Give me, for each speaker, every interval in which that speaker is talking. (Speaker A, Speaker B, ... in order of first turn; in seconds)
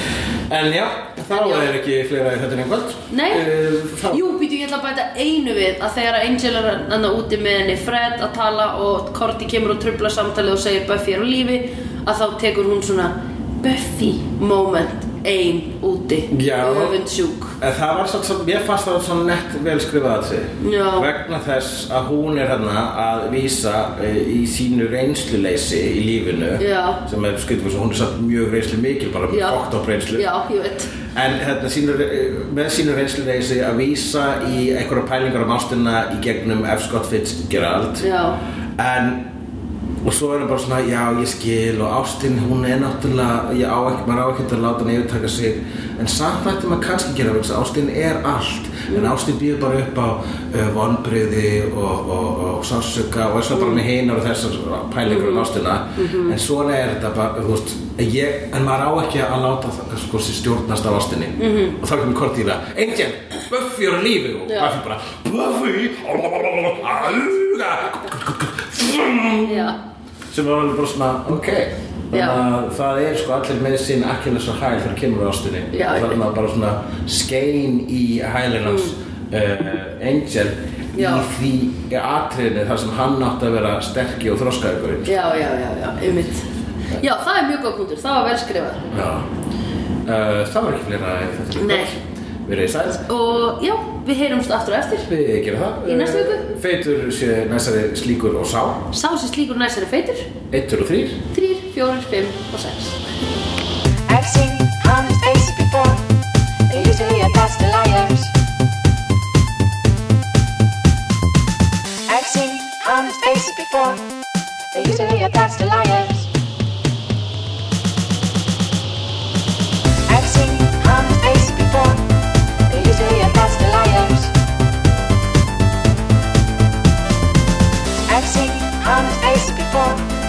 Speaker A: 0.5-4.3, 16.3-17.0, 17.6-30.3, 31.1-38.0, 38.8-39.3, 40.0-69.7, 70.3-85.2, 88.9-89.3, 90.0-93.1, 95.1-98.9, 100.5-101.2
Speaker B: 1.3-1.7, 3.1-3.5, 4.1-17.6, 20.6-21.1, 26.6-27.0, 29.3-29.6, 30.1-30.9, 38.0-38.4, 48.9-49.1, 53.5-53.8, 55.1-56.4, 61.4-61.8, 64.5-64.7, 69.4-69.8, 72.1-72.4, 75.7-76.2, 78.6-79.0, 81.0-81.3, 85.1-86.5, 87.0-88.9, 91.5-91.9, 93.1-95.1, 95.8-96.5, 98.9-100.3, 101.3-103.0
Speaker C: 104.1-106.0, 106.7-108.3, 112.1-114.0, 114.7-116.3, 120.1-122.0, 122.7-124.3, 128.1-130.1